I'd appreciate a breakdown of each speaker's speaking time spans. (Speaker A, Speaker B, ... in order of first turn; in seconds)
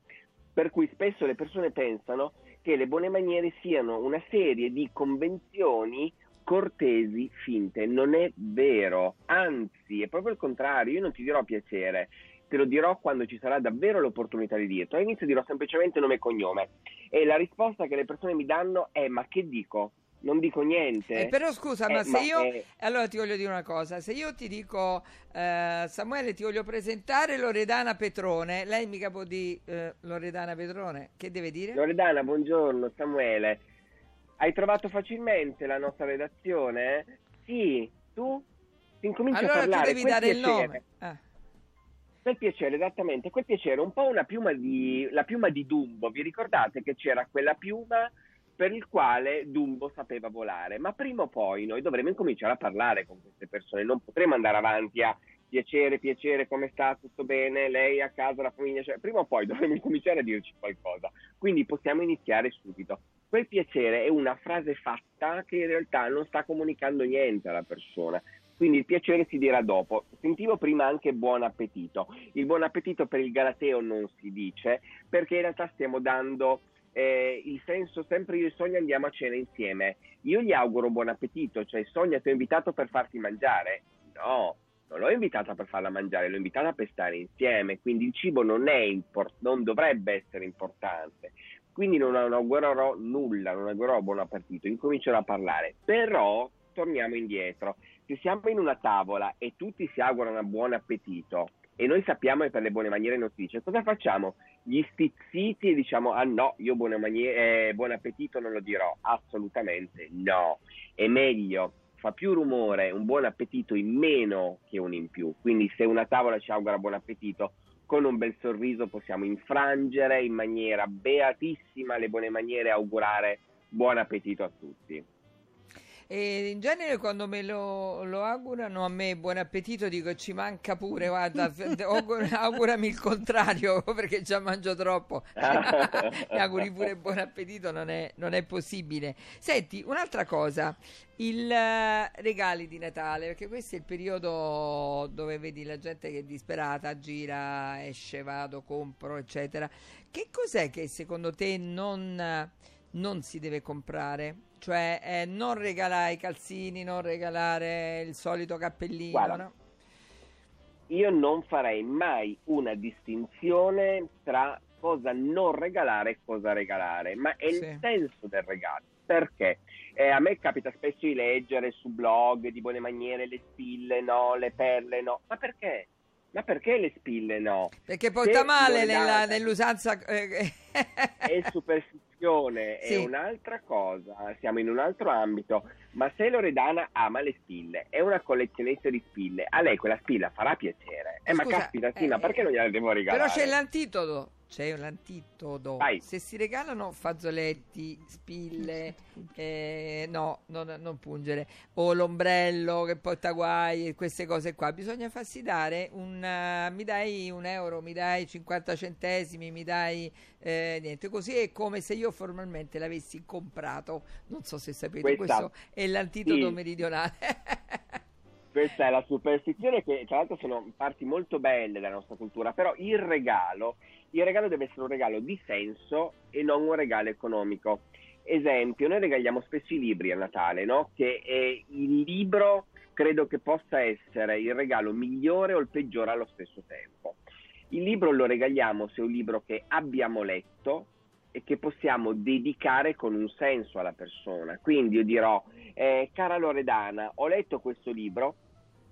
Speaker A: 0.6-21.3, 21.9-22.6, 31.7-33.6, 34.4-38.4, 39.0-40.8, 42.2-125.0, 135.4-136.2, 159.1-159.4, 160.9-177.7, 178.2-179.4, 181.3-193.5, 215.0-215.5, 216.2-216.6, 218.5-237.2, 237.7-248.4
Speaker B: 21.1-31.8, 39.3-41.2, 126.1-159.5, 167.5-167.8, 177.9-181.3, 191.3-192.4, 193.1-217.8